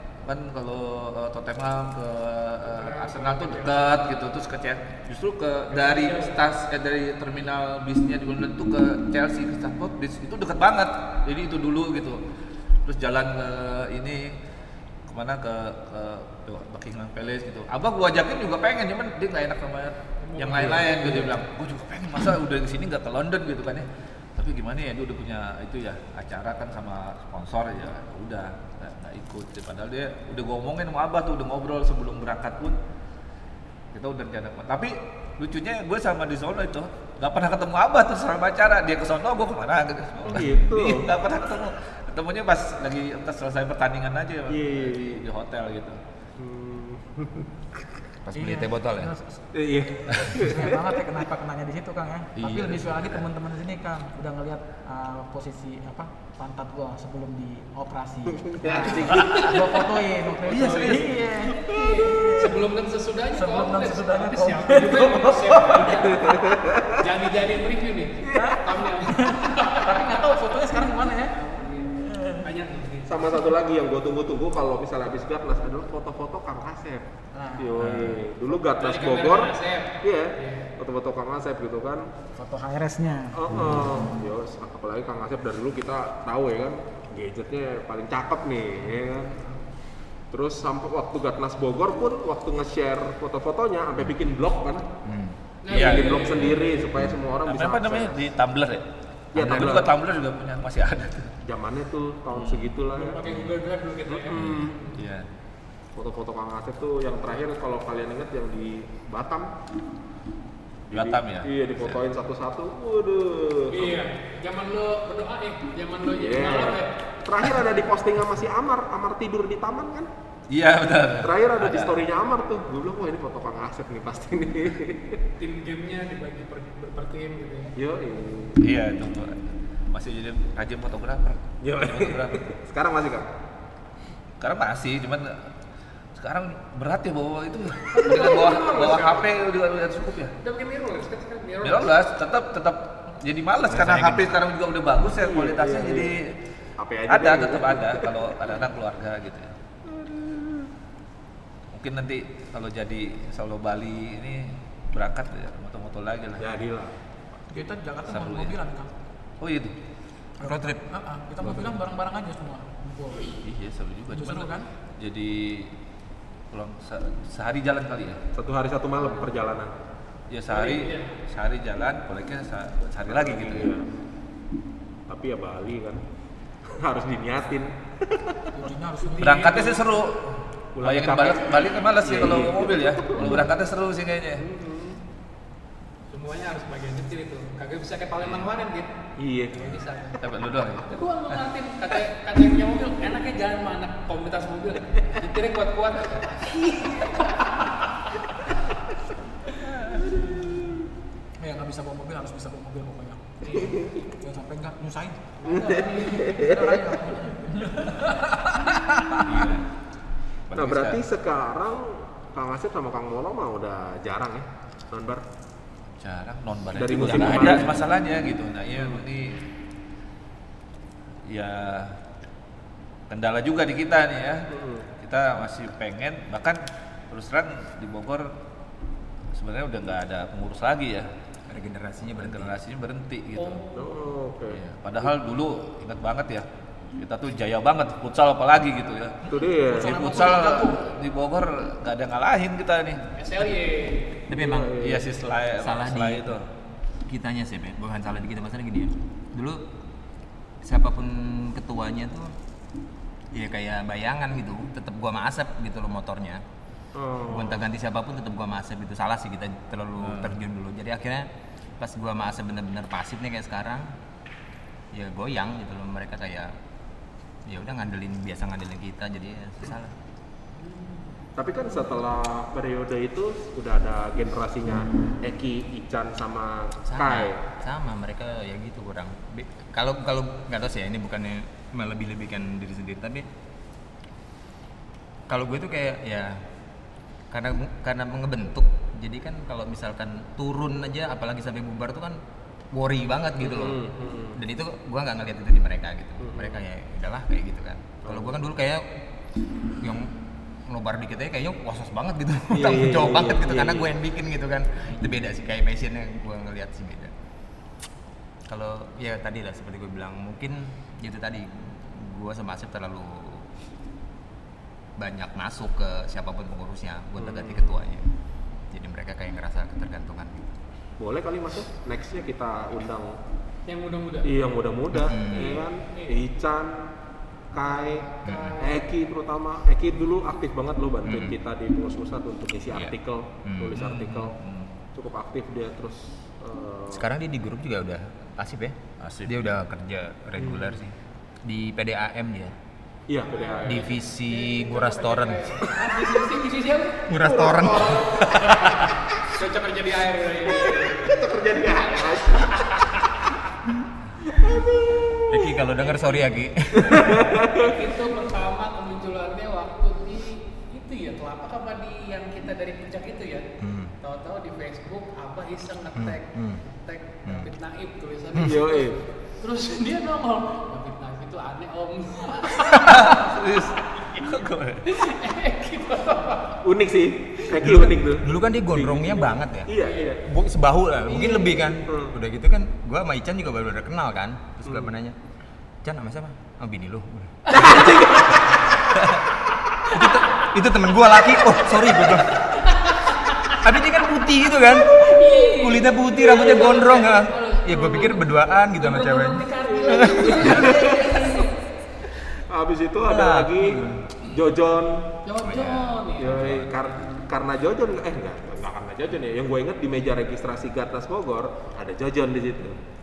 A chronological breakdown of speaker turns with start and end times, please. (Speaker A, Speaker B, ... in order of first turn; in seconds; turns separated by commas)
Speaker A: 0.2-12.2, Speaker B: 2.7-3.9, Speaker B: 5.7-6.3, Speaker A: 12.8-14.4, Speaker A: 15.1-32.8, Speaker B: 20.2-21.4, Speaker A: 33.9-46.0, Speaker C: 40.2-41.1, Speaker C: 44.5-45.2, Speaker C: 46.4-47.8, Speaker D: 48.2-49.1, Speaker E: 48.3-49.3, Speaker C: 49.5-50.9, Speaker E: 50.3-62.5, Speaker A: 52.4-53.2, Speaker C: 58.4-59.5, Speaker A: 60.5-61.2, Speaker B: 60.6-61.0, Speaker B: 61.6-66.4, Speaker C: 61.7-62.0, Speaker E: 63.3-66.3, Speaker C: 66.2-67.0, Speaker B: 67.0-70.3, Speaker C: 68.2-68.6, Speaker E: 68.3-72.5, Speaker B: 71.3-73.3, Speaker C: 73.0-77.0, Speaker E: 77.3-78.0, Speaker C: 77.6-82.1, Speaker A: 77.8-78.2, Speaker B: 78.7-80.7, Speaker E: 82.3-83.4, Speaker C: 83.3-89.4, Speaker C: 90.3-94.9, Speaker D: 95.0-95.4, Speaker B: 95.6-96.9, Speaker A: 95.7-96.5, Speaker C: 95.7-98.2, Speaker A: 97.5-101.3, Speaker C: 99.3-99.9, Speaker C: 101.4-103.2, Speaker A: 102.3-102.7, Speaker B: 102.9-105.0, Speaker C: 104.1-104.8, Speaker A: 105.0-105.3, Speaker C: 105.9-109.5, Speaker C: 110.9-114.0, Speaker A: 110.9-112.0, Speaker B: 113.7-117.0, Speaker C: 116.1-120.1, Speaker A: 120.5-122.0, Speaker C: 121.2-125.2, Speaker B: 125.4-127.7, Speaker C: 127.8-128.6, Speaker A: 128.6-132.4, Speaker C: 131.6-133.3, Speaker A: 134.4-135.4, Speaker A: 136.2-140.3, Speaker B: 137.9-139.3, Speaker B: 140.4-141.9, Speaker A: 141.6-146.3, Speaker D: 143.7-144.4, Speaker C: 145.2-146.1, Speaker C: 146.8-148.6, Speaker A: 147.1-149.5, Speaker C: 149.8-150.7, Speaker A: 151.7-156.5, Speaker C: 156.4-156.9, Speaker E: 157.5-158.9, Speaker A: 158.1-158.5, Speaker A: 159.4-159.7, Speaker E: 160.4-163.3, Speaker D: 160.4-160.8, Speaker A: 163.4-165.7, Speaker E: 164.1-164.7, Speaker A: 166.5-168.2, Speaker C: 168.3-169.7, Speaker A: 170.3-173.7, Speaker B: 170.5-171.1, Speaker C: 173.1-173.9, Speaker C: 175.1-176.0, Speaker C: 176.7-178.5, Speaker E: 178.5-179.8, Speaker A: 179.2-180.2, Speaker C: 180.8-183.5, Speaker A: 180.8-184.4, Speaker C: 184.4-185.0, Speaker B: 186.1-188.9, Speaker C: 189.2-189.8, Speaker B: 189.6-190.2, Speaker A: 190.2-191.4, Speaker B: 190.8-197.8, Speaker A: 199.6-200.0, Speaker C: 199.9-200.8, Speaker E: 201.4-209.4, Speaker B: 203.4-203.8, Speaker B: 205.4-206.6, Speaker C: 205.4-206.9, Speaker A: 209.2-209.7, Speaker A: 210.5-211.0, Speaker C: 210.5-215.2, Speaker A: 216.0-219.4, Speaker C: 216.7-217.8, Speaker D: 217.0-217.6, Speaker A: 221.3-222.0, Speaker A: 223.1-224.5, Speaker C: 224.5-224.9, Speaker A: 225.0-228.3, Speaker A: 229.3-231.1, Speaker D: 231.5-232.6, Speaker A: 232.2-233.7, Speaker B: 233.3-233.9, Speaker C: 233.7-234.6, Speaker A: 234.5-243.0, Speaker C: 239.3-240.1, Speaker E: 239.6-240.8, Speaker B: 243.2-244.2, Speaker D: 244.3-244.8, Speaker C: 244.3-245.1, Speaker A: 244.8-246.4, Speaker D: 245.6-246.4, Speaker D: 247.1-249.6, Speaker D: 250.6-252.3, Speaker D: 253.3-256.4, Speaker C: 256.9-257.6, Speaker D: 257.3-263.9, Speaker A: 260.0-260.4, Speaker D: 264.9-266.5, Speaker D: 267.5-269.9, Speaker B: 270.5-271.2, Speaker C: 271.4-277.4, Speaker D: 276.9-283.3, Speaker D: 285.3-286.5, Speaker D: 287.3-292.2, Speaker D: 292.7-293.8, Speaker C: 293.4-294.4, Speaker D: 294.3-298.9, Speaker C: 296.2-296.6, Speaker C: 298.0-298.4, Speaker D: 299.8-300.1, Speaker D: 300.7-307.1, Speaker C: 302.5-303.9, Speaker D: 308.5-313.5, Speaker D: 315.0-318.1, Speaker C: 317.2-317.8, Speaker D: 318.7-320.5, Speaker C: 321.0-323.2, Speaker B: 323.6-324.4, Speaker C: 324.2-326.9, Speaker D: 324.9-325.6, Speaker B: 325.9-326.2, Speaker C: 327.5-334.3, Speaker B: 327.8-328.9, Speaker D: 328.2-328.6, Speaker D: 331.0-331.4, Speaker D: 333.4-333.8, Speaker A: 333.7-334.8, Speaker C: 334.9-337.1, Speaker D: 336.9-342.5, Speaker A: 339.0-339.5, Speaker C: 340.4-340.8, Speaker C: 343.1-343.9, Speaker B: 343.3-351.3, Speaker D: 343.6-345.7, Speaker D: 347.1-348.3, Speaker C: 347.1-348.5, Speaker C: 350.5-352.6, Speaker B: 352.5-353.2, Speaker C: 354.3-355.6, Speaker D: 355.3-357.4, Speaker B: 355.8-356.1, Speaker C: 356.8-357.7, Speaker B: 357.5-363.5, Speaker D: 363.6-363.9, Speaker B: 364.0-376.6, Speaker D: 365.9-366.6, Speaker C: 368.4-369.0, Speaker A: 372.7-375.0, Speaker C: 376.6-380.2, Speaker D: 377.6-385.2, Speaker B: 379.8-380.1, Speaker C: 381.9-382.1, Speaker D: 385.8-387.9, Speaker B: 387.5-388.4, Speaker C: 387.5-388.4, Speaker D: 389.9-392.5, Speaker B: 392.6-393.6, Speaker D: 393.5-400.5, Speaker B: 394.9-401.5, Speaker C: 399.7-401.5, Speaker C: 402.3-405.1, Speaker D: 403.0-404.1, Speaker B: 405.2-406.5, Speaker D: 405.4-406.7, Speaker C: 406.1-412.8